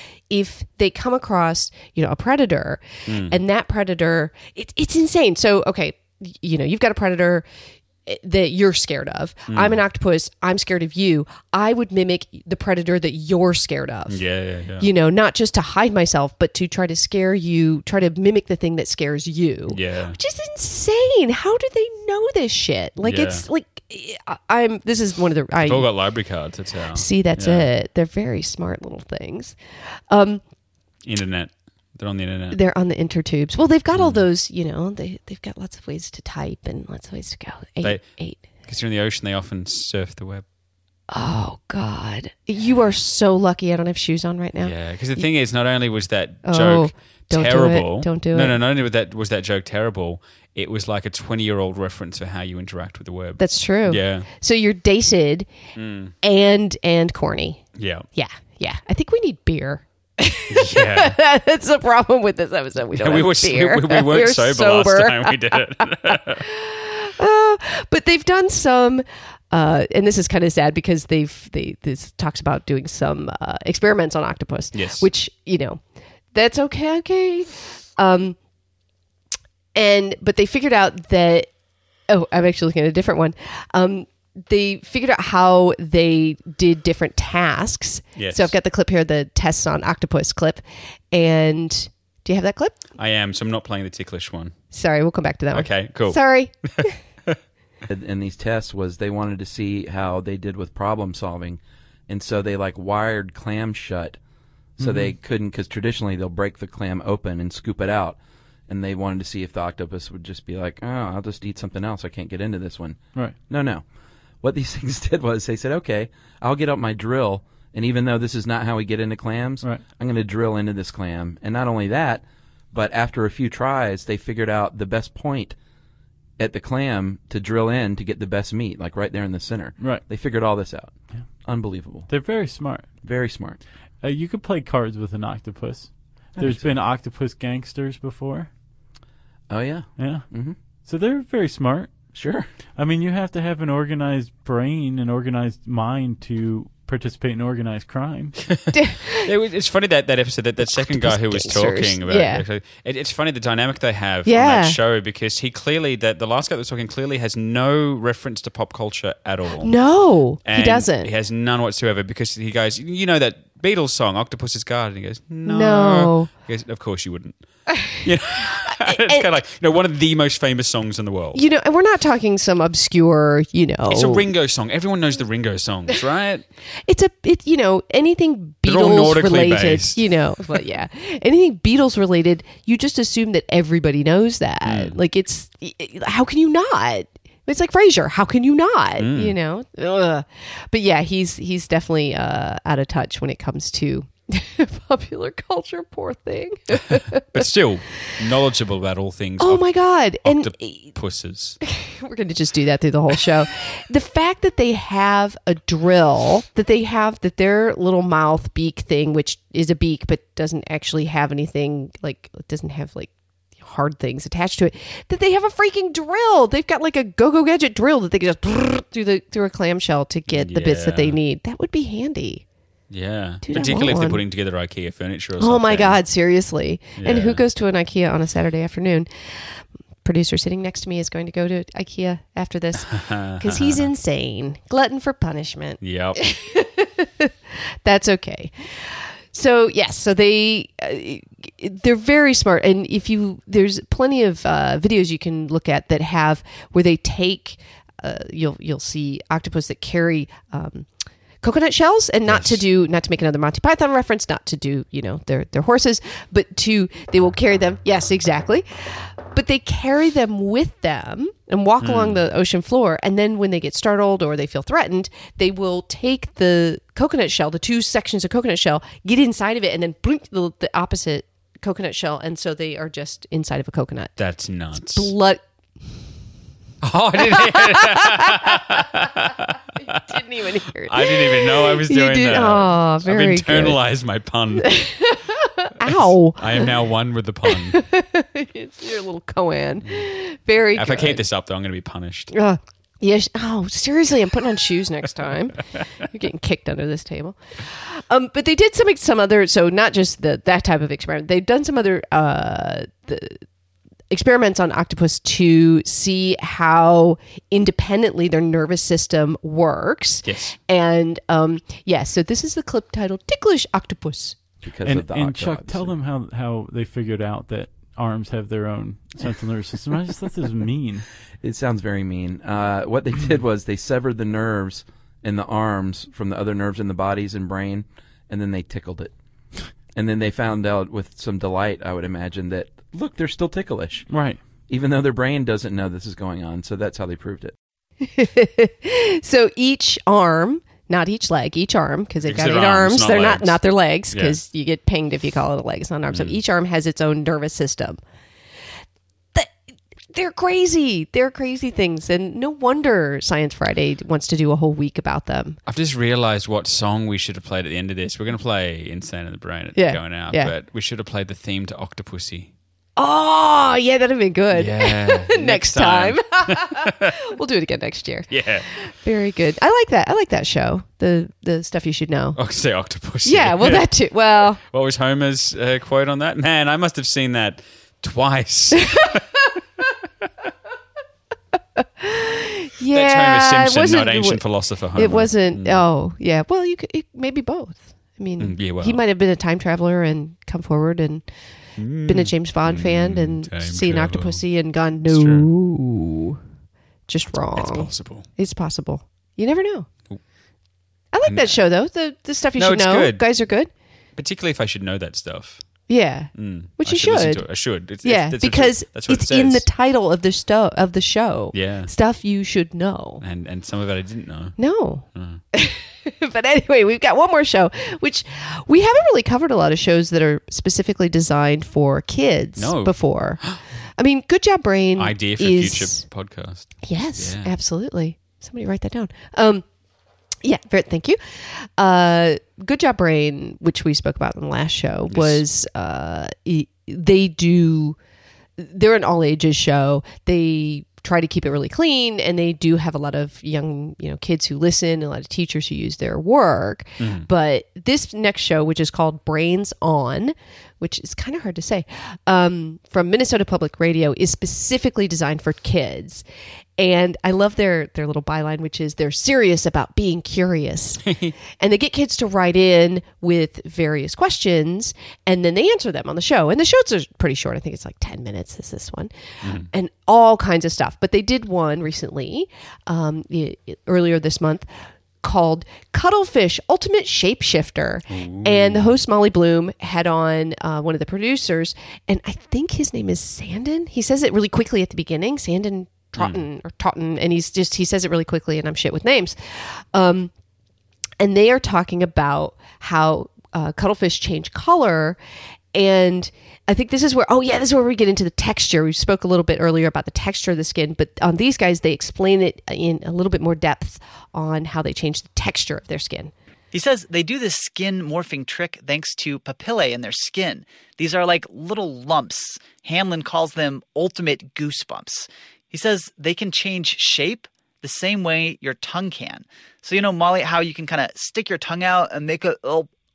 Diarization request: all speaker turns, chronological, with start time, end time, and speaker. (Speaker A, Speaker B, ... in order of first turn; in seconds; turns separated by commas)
Speaker A: 0.3-7.5, Speaker B: 3.1-3.4, Speaker A: 8.1-14.2, Speaker B: 9.5-9.8, Speaker B: 14.1-14.9, Speaker A: 14.8-25.9, Speaker B: 19.7-20.2, Speaker B: 23.0-23.5, Speaker B: 25.6-27.7, Speaker A: 26.9-29.6, Speaker A: 30.1-30.4, Speaker B: 31.1-32.6, Speaker A: 32.5-38.4, Speaker B: 33.9-34.2, Speaker B: 37.8-38.1, Speaker B: 38.7-40.5, Speaker A: 41.1-45.3, Speaker B: 44.6-54.3, Speaker A: 46.5-48.6, Speaker A: 53.4-55.5, Speaker B: 55.8-56.1, Speaker A: 56.2-57.6, Speaker B: 57.8-58.0, Speaker A: 58.1-75.8, Speaker B: 60.5-61.2, Speaker B: 63.0-66.4, Speaker B: 74.8-75.1, Speaker A: 76.3-78.4, Speaker A: 79.8-81.5, Speaker A: 82.1-92.8, Speaker B: 88.2-88.5, Speaker B: 93.0-94.5, Speaker A: 94.7-97.0, Speaker B: 95.5-96.2, Speaker C: 97.9-104.2, Speaker C: 104.8-113.8, Speaker D: 104.8-105.2, Speaker C: 114.4-125.5, Speaker C: 126.4-132.1, Speaker D: 129.8-130.1, Speaker D: 132.1-132.9, Speaker C: 133.0-133.6, Speaker D: 134.0-138.5, Speaker C: 136.4-136.7, Speaker C: 139.5-140.6, Speaker D: 140.0-140.3, Speaker D: 140.8-141.9, Speaker C: 142.1-142.5, Speaker D: 142.8-148.3, Speaker B: 148.5-159.7, Speaker A: 148.7-149.3, Speaker A: 150.7-152.4, Speaker A: 154.3-154.8, Speaker A: 159.6-161.1, Speaker B: 160.5-167.4, Speaker A: 165.4-166.3, Speaker B: 167.9-171.4, Speaker A: 168.7-169.3, Speaker A: 171.3-174.3, Speaker B: 173.9-176.4, Speaker A: 176.9-197.4, Speaker B: 178.7-180.6, Speaker B: 184.7-185.0, Speaker B: 189.0-189.3, Speaker B: 197.3-201.6, Speaker A: 199.4-200.9, Speaker A: 201.7-222.4, Speaker B: 220.3-221.2, Speaker B: 222.9-226.0, Speaker A: 223.4-224.2, Speaker A: 225.4-229.1, Speaker B: 227.0-227.4, Speaker A: 230.0-237.3, Speaker B: 232.9-233.9, Speaker B: 235.8-236.2, Speaker A: 237.8-250.9, Speaker A: 251.4-258.7, Speaker B: 252.3-252.6, Speaker A: 259.3-274.2, Speaker B: 261.8-262.2, Speaker B: 274.2-275.1, Speaker A: 274.8-275.4, Speaker B: 276.8-280.2, Speaker A: 277.2-278.8, Speaker A: 279.8-283.8, Speaker B: 280.9-284.9, Speaker A: 284.6-286.7, Speaker B: 285.8-287.8, Speaker A: 287.5-291.2, Speaker B: 290.7-292.3, Speaker A: 292.3-303.4, Speaker A: 304.1-314.4, Speaker B: 310.2-310.6, Speaker C: 314.6-315.9, Speaker D: 314.8-321.1, Speaker C: 321.4-329.1, Speaker C: 329.9-334.1, Speaker D: 334.1-334.4, Speaker C: 334.7-337.5, Speaker A: 338.0-348.0, Speaker B: 342.2-343.6, Speaker B: 344.1-344.4, Speaker B: 346.1-346.4, Speaker A: 350.1-355.6, Speaker B: 355.7-362.5, Speaker A: 359.8-360.5, Speaker A: 363.0-372.4, Speaker B: 364.5-367.2, Speaker B: 368.3-368.7, Speaker B: 372.4-373.9, Speaker A: 373.2-374.6, Speaker B: 374.6-379.2, Speaker A: 381.8-384.4, Speaker B: 382.9-385.8, Speaker A: 385.0-391.2, Speaker B: 388.4-389.0, Speaker B: 391.8-394.4, Speaker A: 392.1-396.4, Speaker B: 395.1-395.5, Speaker A: 397.1-399.9, Speaker B: 397.5-398.3, Speaker A: 401.1-403.7, Speaker B: 401.2-401.6, Speaker B: 402.6-403.2, Speaker B: 404.2-405.6, Speaker A: 405.9-407.4, Speaker B: 406.4-409.6, Speaker A: 408.0-413.2, Speaker B: 411.5-411.9, Speaker B: 413.2-414.6, Speaker A: 414.6-423.4, Speaker B: 415.1-415.4, Speaker B: 422.6-423.6, Speaker A: 424.0-426.0, Speaker B: 425.0-427.5, Speaker A: 426.8-429.6, Speaker A: 430.4-438.0, Speaker B: 435.1-435.4, Speaker A: 438.6-456.2, Speaker B: 447.0-447.3, Speaker A: 456.8-461.1, Speaker B: 461.1-461.4, Speaker A: 461.6-469.1, Speaker B: 469.4-469.7, Speaker A: 469.7-474.7, Speaker A: 475.2-490.3, Speaker B: 478.1-478.9, Speaker B: 486.2-486.4, Speaker A: 491.2-495.2, Speaker A: 495.7-506.3, Speaker E: 506.7-522.9